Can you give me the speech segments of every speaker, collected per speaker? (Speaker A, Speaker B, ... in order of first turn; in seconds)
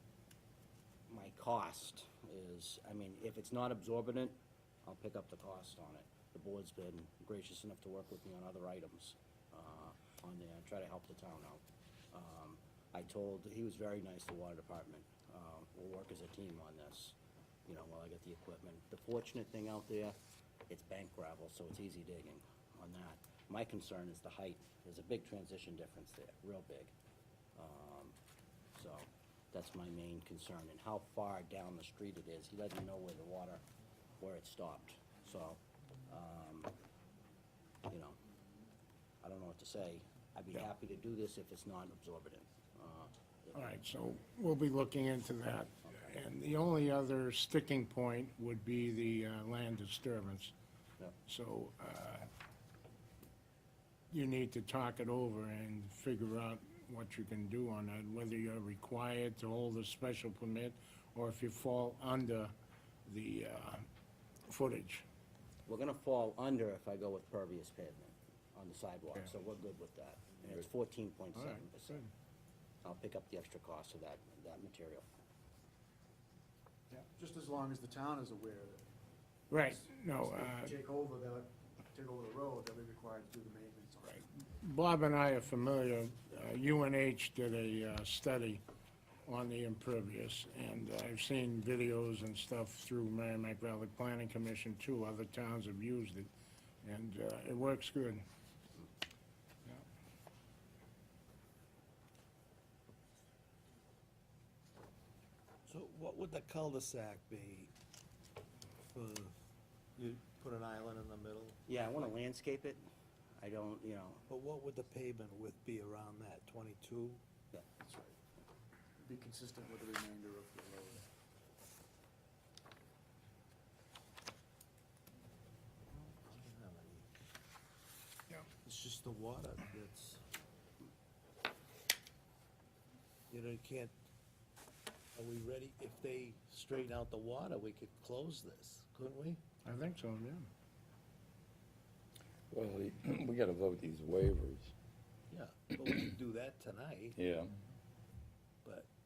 Speaker A: 1.1-17.1, 17.7-20.1, 20.7-26.9, 27.6-28.2, 28.7-33.6, 34.2-36.7, 37.9-38.2, 39.2-43.7, 65.7-72.0, 72.8-75.0, 111.7-112.8, 113.4-114.2
Speaker B: 43.5-50.5, 51.3-52.3, 54.1-62.5, 63.0-63.8, 64.5-65.0, 71.3-72.1, 79.5-80.7, 84.2-88.6, 89.3-96.3, 96.8-98.2, 139.6-140.5
Speaker C: 76.9-78.8, 79.7-84.3, 117.8-118.2, 119.0-121.0
Speaker D: 105.7-107.7, 108.8-109.4, 110.0-111.6, 114.3-117.2, 125.9-127.1, 128.6-130.2, 133.3-133.9, 135.1-139.4, 145.3-147.2
Speaker E: 142.5-144.7, 147.1-147.5